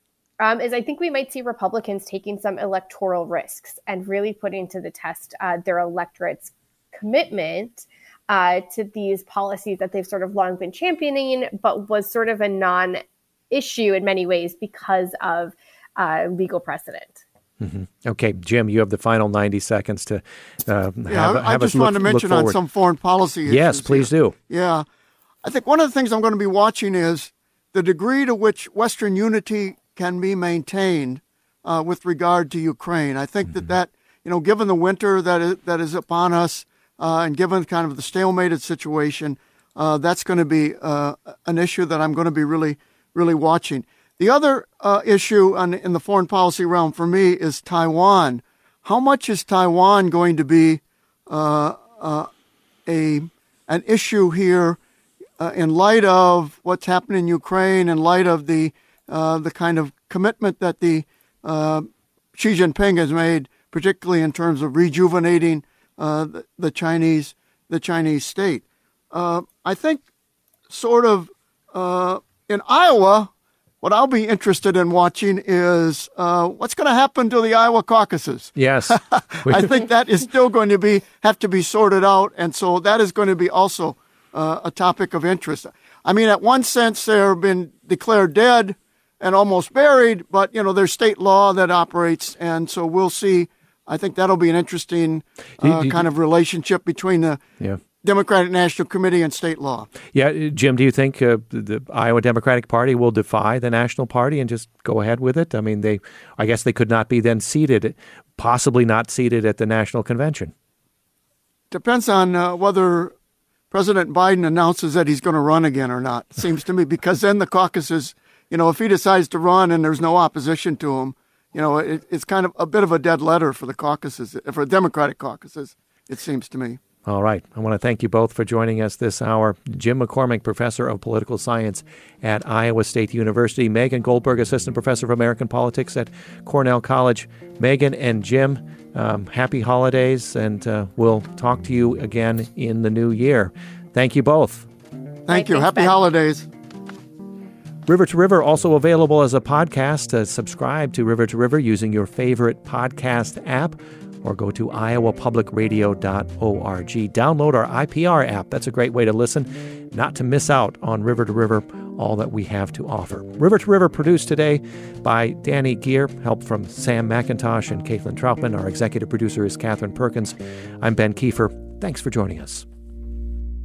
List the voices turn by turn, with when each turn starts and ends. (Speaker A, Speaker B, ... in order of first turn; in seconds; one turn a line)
Speaker A: 0.4-17.2
Speaker B: 17.6-22.6
Speaker C: 21.1-24.9
Speaker B: 23.4-24.3
Speaker C: 25.4-52.3
Speaker C: 52.9-54.8
Speaker C: 55.4-70.0
Speaker C: 70.7-97.4
Speaker B: 78.6-79.7
Speaker B: 95.6-96.1
Speaker C: 98.0-99.9
Speaker B: 100.1-110.5
Speaker C: 111.7-113.1
Speaker C: 113.7-126.8
Speaker B: 127.0-144.7
Speaker C: 145.3-146.5
Speaker A: 145.3-145.9
Speaker B: 147.8-172.7